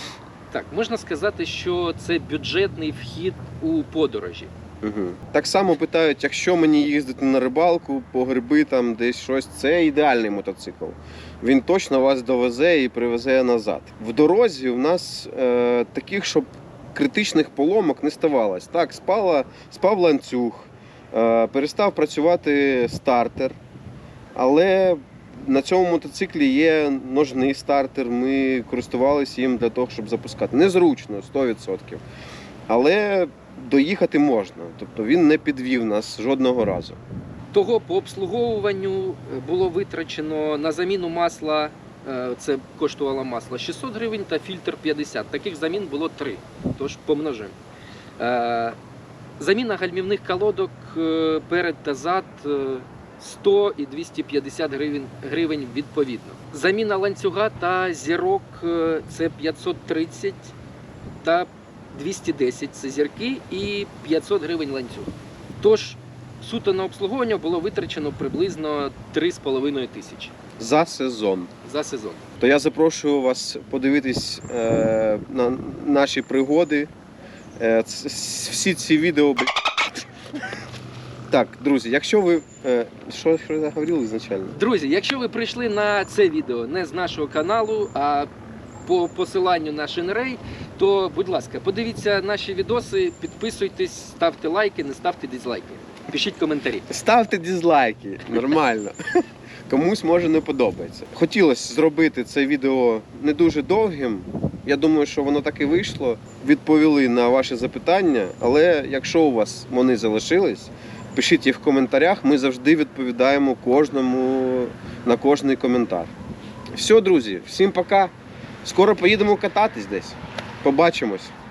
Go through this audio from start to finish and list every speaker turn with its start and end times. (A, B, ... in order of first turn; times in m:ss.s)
0:00.5-0:04.5 A
0:04.8-0:23.6 B
0:24.3-0:32.0 B
0:32.7-0:37.0 B
0:37.5-0:47.6 A
0:48.2-0:48.8 A
0:49.4-1:00.5 A
1:01.2-1:10.3 A
1:10.6-1:11.5 B
1:11.6-1:12.2 A
1:12.4-1:16.9 B
1:17.6-1:20.0 B
1:21.3-1:24.6 B
1:24.5-1:28.3 A
1:28.8-1:36.9 A
1:36.9-1:39.0 B
1:39.7-1:56.1 B
1:56.7-1:58.1 B
1:58.6-2:01.3 B